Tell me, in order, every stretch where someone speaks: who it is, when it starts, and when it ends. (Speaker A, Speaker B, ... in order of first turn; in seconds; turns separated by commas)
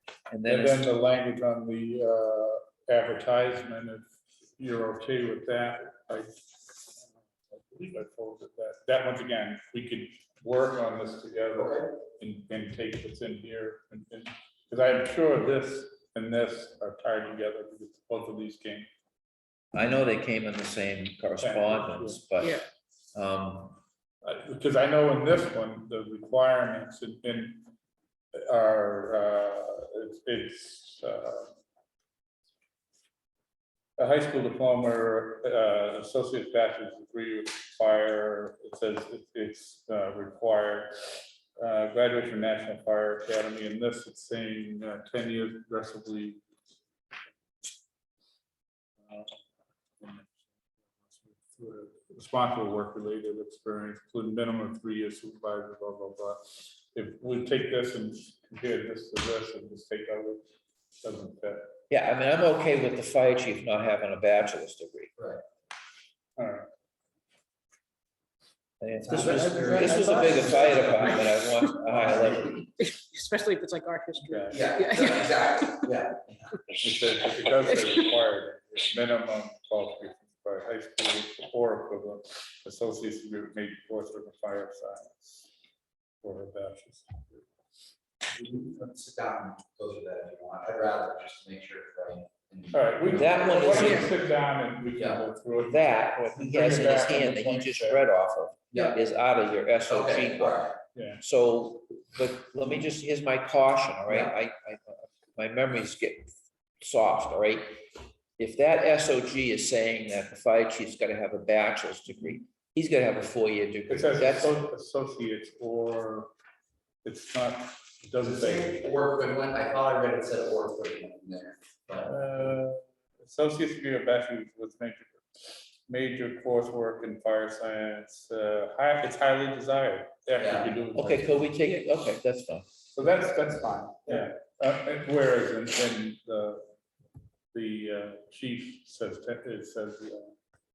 Speaker A: 0.3-0.8, Speaker B: 0.4-18.9, Speaker C: 11.5-11.9, Speaker A: 19.7-23.8, Speaker B: 21.4-22.2, Speaker B: 24.2-27.7, Speaker B: 28.3-31.5, Speaker B: 34.0-46.4, Speaker B: 49.0-49.4, Speaker B: 50.0-50.4, Speaker B: 51.0-60.4, Speaker B: 61.0-61.6, Speaker A: 61.9-65.1, Speaker C: 65.2-65.4, Speaker B: 66.4-66.7, Speaker A: 68.8-72.6, Speaker C: 69.0-72.6, Speaker B: 69.1-71.2, Speaker D: 69.7-71.7, Speaker D: 72.8-75.9, Speaker B: 74.2-74.7, Speaker C: 74.5-76.7, Speaker B: 76.8-85.5, Speaker D: 77.6-78.1, Speaker B: 86.2-87.5, Speaker C: 88.3-94.0, Speaker B: 92.7-98.0, Speaker A: 93.1-94.1, Speaker C: 94.9-95.2, Speaker A: 95.6-107.9, Speaker C: 98.7-99.0, Speaker C: 99.9-100.8, Speaker B: 100.9-101.2, Speaker A: 108.4-114.5, Speaker B: 113.9-116.3, Speaker B: 117.0-118.8, Speaker C: 118.2-122.1, Speaker B: 121.9-125.3, Speaker B: 125.9-131.5, Speaker C: 130.3-130.8, Speaker A: 130.9-132.7, Speaker B: 132.9-136.7, Speaker B: 137.5-140.3